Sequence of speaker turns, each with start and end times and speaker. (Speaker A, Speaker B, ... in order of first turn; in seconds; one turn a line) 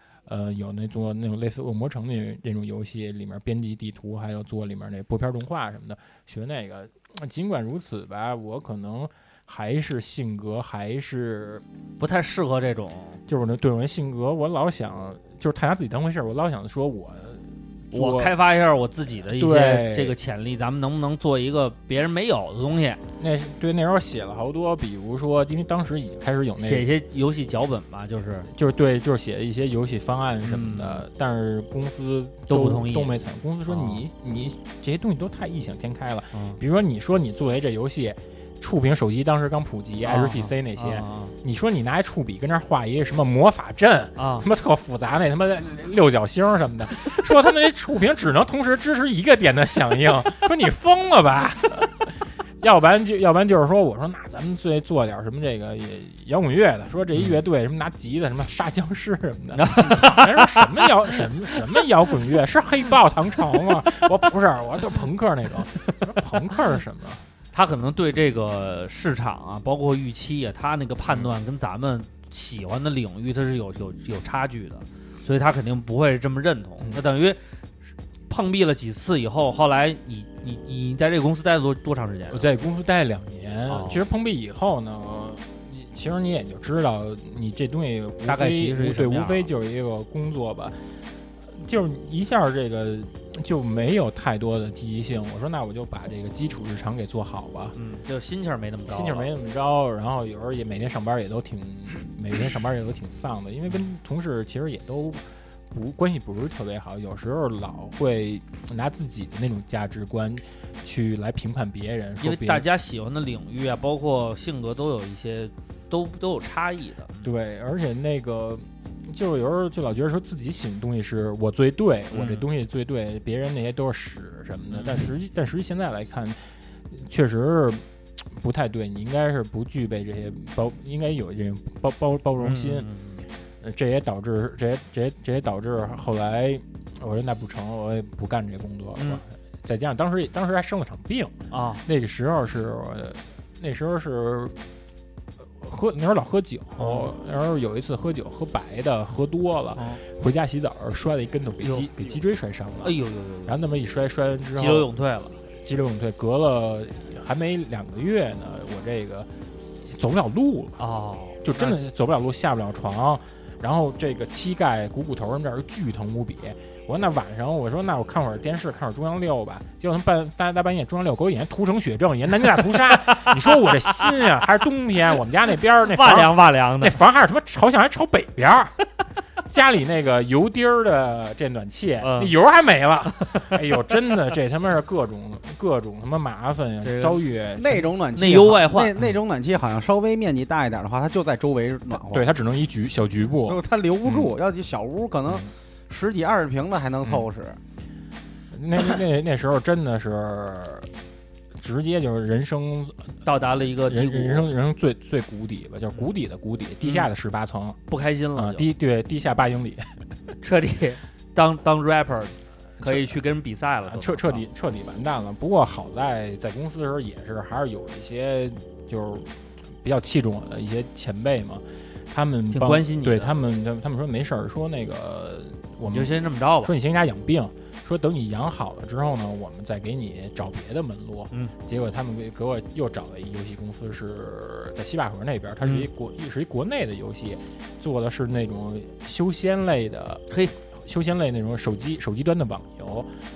Speaker A: 0.3-11.6
Speaker B: 12.0-13.2
Speaker A: 13.3-18.4
Speaker B: 17.9-23.0
Speaker A: 19.2-20.1
Speaker A: 23.2-26.9
Speaker B: 26.6-28.5
Speaker A: 28.5-67.2
Speaker B: 30.4-31.0
Speaker B: 32.5-34.0
Speaker B: 36.3-36.6
Speaker B: 40.0-41.3
Speaker B: 44.2-44.5
Speaker B: 59.5-61.8
Speaker B: 67.5-77.4
Speaker B: 78.3-82.5
Speaker A: 82.3-90.9
Speaker B: 83.7-84.0
Speaker B: 88.2-89.5
Speaker A: 91.5-97.8
Speaker B: 97.7-99.3
Speaker A: 98.9-112.6
Speaker B: 112.2-117.3
Speaker A: 117.2-126.4
Speaker B: 122.1-122.5
Speaker B: 124.7-125.1
Speaker A: 126.9-132.9
Speaker B: 132.4-133.2
Speaker A: 133.6-141.3
Speaker B: 141.5-141.8
Speaker A: 141.8-144.5
Speaker A: 145.6-154.9
Speaker B: 146.8-147.1
Speaker B: 149.7-150.0
Speaker B: 151.6-151.9
Speaker B: 152.8-153.6
Speaker B: 154.6-155.4
Speaker A: 155.6-159.3
Speaker A: 159.8-160.8
Speaker B: 160.8-161.8
Speaker A: 161.4-178.8
Speaker B: 172.7-174.1
Speaker B: 175.8-177.0
Speaker A: 179.4-187.9
Speaker B: 182.0-182.3
Speaker B: 183.2-183.6
Speaker B: 186.8-187.3
Speaker C: 187.5-192.4
Speaker B: 188.1-189.0
Speaker A: 191.9-194.3
Speaker C: 193.4-197.6
Speaker A: 198.5-200.9
Speaker A: 201.6-203.1
Speaker B: 203.2-204.5
Speaker A: 203.8-207.8
Speaker B: 206.8-207.1
Speaker B: 207.9-208.7
Speaker A: 208.3-209.9
Speaker B: 210.4-214.4
Speaker A: 212.8-213.1
Speaker A: 213.8-243.1
Speaker B: 222.5-223.3
Speaker B: 225.9-226.7
Speaker B: 235.6-235.9